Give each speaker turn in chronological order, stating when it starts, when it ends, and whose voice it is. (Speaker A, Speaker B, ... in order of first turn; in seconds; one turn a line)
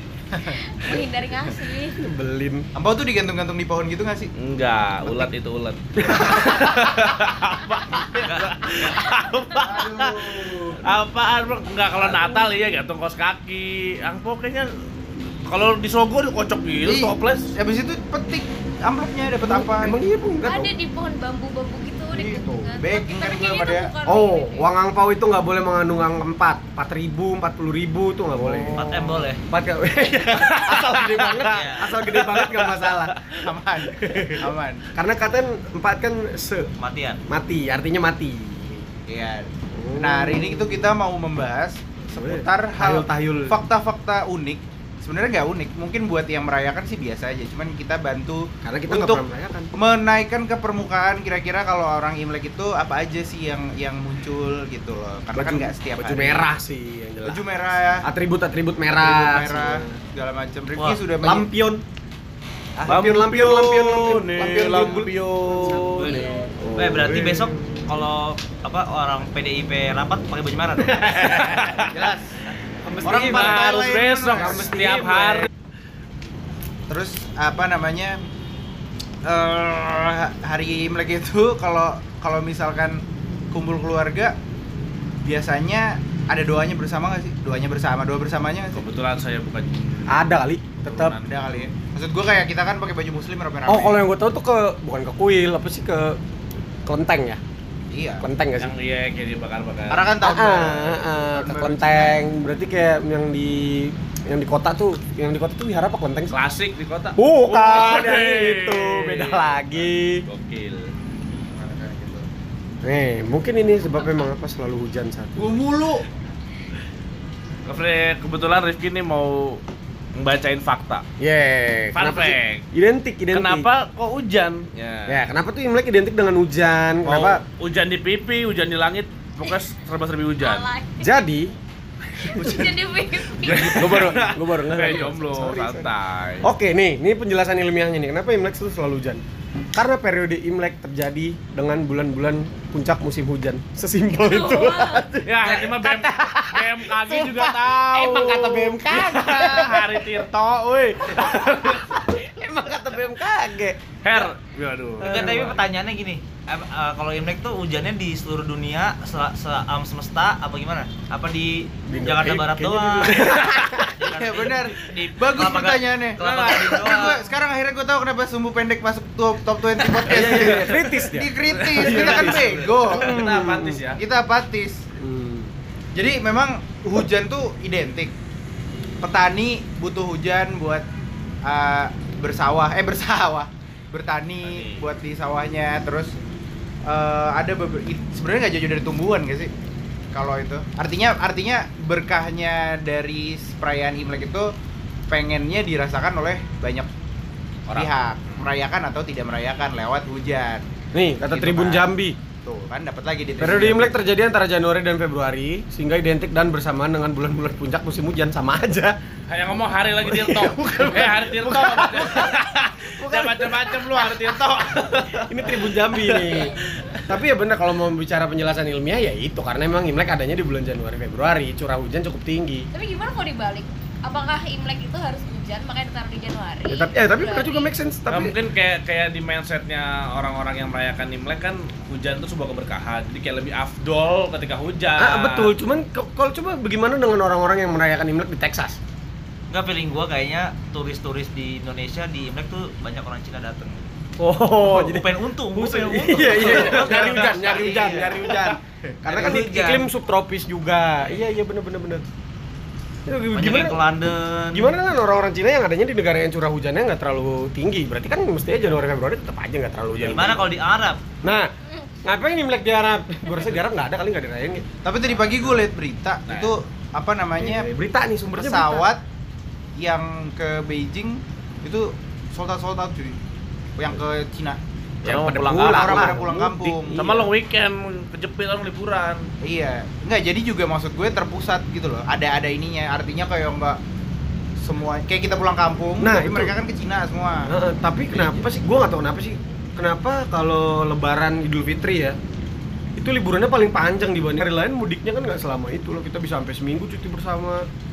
Speaker A: 0.3-0.6
Speaker B: 0.5-2.0
Speaker C: 2.0-2.7
Speaker A: 2.8-4.3
Speaker D: 4.4-14.7
Speaker C: 6.0-6.8
Speaker E: 8.2-8.5
Speaker B: 9.1-9.4
Speaker A: 9.6-10.8
Speaker D: 15.4-17.5
Speaker A: 16.9-20.0
Speaker C: 19.4-20.7
Speaker B: 20.4-24.7
Speaker A: 22.1-23.9
Speaker C: 24.1-33.2
Speaker D: 28.4-28.7
Speaker E: 28.8-29.4
Speaker D: 30.4-33.5
Speaker E: 31.5-31.9
Speaker A: 33.4-34.9
Speaker C: 33.9-36.7
Speaker E: 36.8-37.2
Speaker C: 37.3-38.9
Speaker A: 39.1-49.2
Speaker C: 39.7-41.0
Speaker C: 42.1-43.6
Speaker C: 48.6-49.7
Speaker A: 49.7-56.5
Speaker C: 55.3-57.5
Speaker A: 57.2-58.1
Speaker C: 58.0-60.0
Speaker A: 58.9-61.5
Speaker C: 61.2-61.8
Speaker A: 62.8-63.0
Speaker C: 62.8-67.8
Speaker D: 62.9-66.2
Speaker A: 64.4-65.1
Speaker E: 66.0-71.5
Speaker B: 66.0-66.5
Speaker C: 70.8-71.8
Speaker D: 71.2-71.9
Speaker A: 71.8-72.4
Speaker C: 72.8-75.5
Speaker A: 73.0-74.8
Speaker D: 73.0-75.5
Speaker A: 76.9-78.2
Speaker A: 79.2-84.4
Speaker A: 85.2-88.8
Speaker D: 88.7-91.7
Speaker C: 90.1-91.2
Speaker A: 91.2-94.0
Speaker C: 93.7-96.2
Speaker C: 96.9-97.4
Speaker A: 97.9-98.2
Speaker C: 98.2-98.7
Speaker D: 98.6-100.1
Speaker A: 99.9-102.2
Speaker C: 100.2-106.4
Speaker D: 106.3-110.9
Speaker C: 107.2-110.2
Speaker A: 111.5-112.3
Speaker C: 112.8-115.4
Speaker A: 115.4-116.1
Speaker D: 117.7-119.6
Speaker D: 120.2-121.0
Speaker C: 121.2-123.7
Speaker D: 121.9-122.7
Speaker D: 123.3-125.3
Speaker C: 125.1-127.4
Speaker D: 127.0-130.7
Speaker B: 130.4-131.3
Speaker C: 131.0-131.5
Speaker C: 132.2-132.8
Speaker B: 132.2-134.2
Speaker D: 133.4-136.5
Speaker C: 133.4-135.9
Speaker C: 136.4-139.2
Speaker C: 139.7-150.1
Speaker B: 144.2-145.1
Speaker D: 145.2-152.0
Speaker C: 151.1-153.8
Speaker D: 154.0-155.5
Speaker C: 155.0-155.6
Speaker E: 155.0-167.2
Speaker C: 161.9-164.0
Speaker D: 163.2-163.8
Speaker A: 164.1-173.2
Speaker D: 166.2-166.9
Speaker D: 169.9-174.0
Speaker C: 170.0-173.8
Speaker A: 174.0-174.8
Speaker C: 175.0-175.5
Speaker A: 175.9-178.1
Speaker A: 179.0-180.8
Speaker A: 181.4-186.2
Speaker D: 184.4-184.9
Speaker A: 186.9-189.5
Speaker A: 190.1-194.5
Speaker A: 195.1-196.9
Speaker D: 197.7-198.5
Speaker A: 197.7-200.7
Speaker C: 200.9-202.2
Speaker A: 201.3-201.9
Speaker A: 202.4-204.0
Speaker C: 203.4-209.0
Speaker D: 209.3-217.1
Speaker C: 210.0-212.4
Speaker C: 213.0-213.7
Speaker C: 215.1-222.7
Speaker B: 222.7-227.7
Speaker C: 226.7-228.3
Speaker D: 228.1-235.5
Speaker C: 235.0-238.8
Speaker E: 239.5-243.9
Speaker C: 244.2-252.1
Speaker E: 244.6-248.5
Speaker D: 246.4-247.4
Speaker A: 247.5-248.1
Speaker E: 249.1-249.9
Speaker C: 253.1-253.8
Speaker E: 253.3-254.7
Speaker C: 254.5-260.5
Speaker D: 260.0-260.3
Speaker E: 260.1-261.0
Speaker C: 261.2-261.5
Speaker C: 262.0-264.7
Speaker A: 264.8-267.7
Speaker D: 265.1-265.7
Speaker D: 266.3-266.6
Speaker C: 267.4-268.9
Speaker A: 268.3-269.0
Speaker A: 269.8-273.2
Speaker A: 273.8-274.6
Speaker D: 275.0-276.2
Speaker C: 275.0-277.3
Speaker A: 275.6-277.2
Speaker D: 276.9-279.3
Speaker A: 279.4-283.8
Speaker A: 284.6-287.5
Speaker C: 286.0-286.6
Speaker C: 287.5-292.2
Speaker C: 293.0-297.7